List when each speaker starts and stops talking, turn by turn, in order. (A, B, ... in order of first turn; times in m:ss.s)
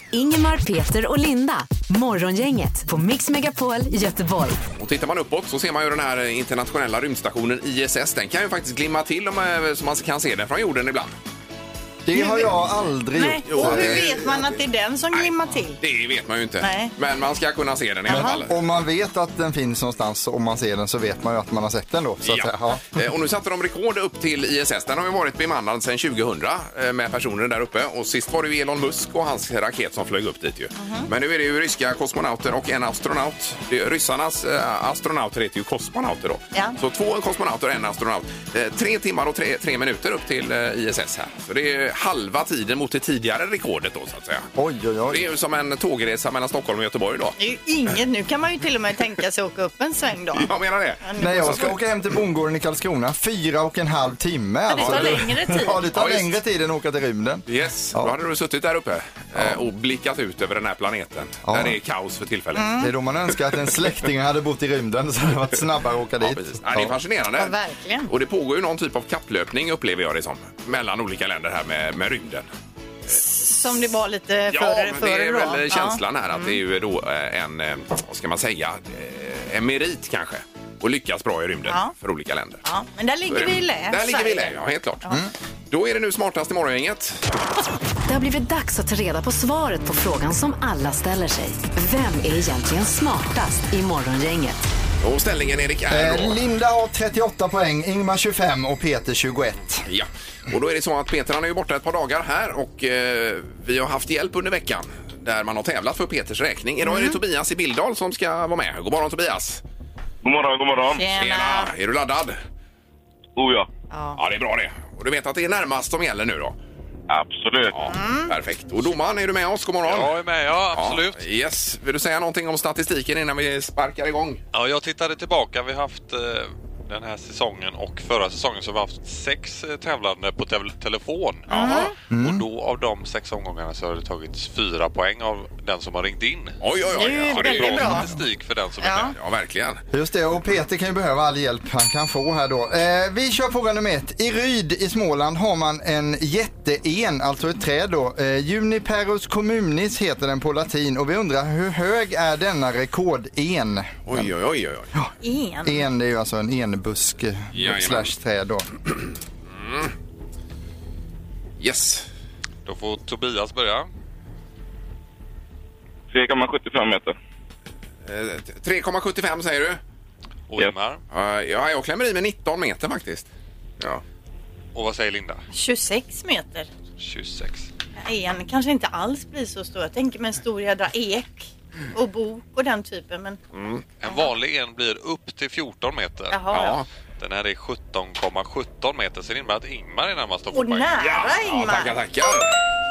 0:00.1-0:04.6 A
0:04.8-0:11.1 B
0:12.1-0:14.1 C
0:12.1-0:12.5 D
0:13.1-0:15.8 D
0:13.5-0:14.5 B
0:15.8-0:18.6 B
0:16.6-0:16.9 D
0:18.1-0:18.4 D
0:18.1-0:22.8 C
0:22.2-0:44.5 B
0:30.8-0:31.1 D
0:44.6-0:45.2 C
0:45.1-0:47.4 B
0:47.4-0:50.5 D
0:50.4-0:51.7 B
0:51.0-0:51.7 D
0:51.2-0:58.1 C
0:54.7-0:55.8 D
0:54.8-0:55.2 B
0:55.9-0:56.4 B
0:57.5-1:02.8 B
1:01.5-1:01.8 C
1:02.6-1:02.9 D
1:02.8-1:07.0 C
1:06.2-1:07.6 B
1:07.4-1:08.1 D
1:08.1-1:12.5 B
1:13.1-1:16.6 D
1:14.5-1:22.6 B
1:21.7-1:21.9 D
1:22.6-1:25.2 D
1:23.3-1:25.1 B
1:25.7-1:27.2 B
1:28.1-1:34.7 A
1:35.0-1:36.4 B
1:35.9-1:39.8 C
1:39.9-1:49.6 B
1:46.8-1:47.2 D
1:50.2-1:51.0 E
1:51.0-1:51.7 D
1:51.2-1:52.4 B
1:53.4-1:53.7 E
1:53.9-1:54.2 D
1:54.2-1:56.6 B
1:57.1-1:57.7 E
1:57.7-2:00.2 B
1:57.8-1:58.3 D
1:59.8-2:01.2 F
2:00.7-2:04.4 B
2:04.5-2:19.1 F
2:11.5-2:11.9 B
2:11.5-2:11.9 D
2:12.1-2:12.4 C
2:16.6-2:18.1 B
2:17.0-2:18.1 D
2:18.8-2:19.1 D
2:18.9-2:19.8 B
2:19.9-2:34.3 C
2:34.1-2:34.9 B
2:35.2-2:35.9 D
2:35.6-2:38.7 C
2:37.5-2:38.1 B
2:39.5-2:39.9 B
2:41.6-2:42.1 B
2:42.6-2:43.9 F
2:46.1-2:47.2 E
2:48.0-2:49.8 B
2:50.5-2:51.0 F
2:51.1-2:53.3 B
2:54.8-2:55.4 F
2:55.5-2:56.7 D
2:57.0-2:57.7 F
2:58.0-3:03.4 D
3:03.5-3:03.9 B
3:04.0-3:06.5 F
3:04.0-3:04.3 D
3:06.3-3:06.8 D
3:06.5-3:06.9 B
3:07.2-3:11.0 F
3:10.5-3:12.0 D
3:11.0-3:12.6 B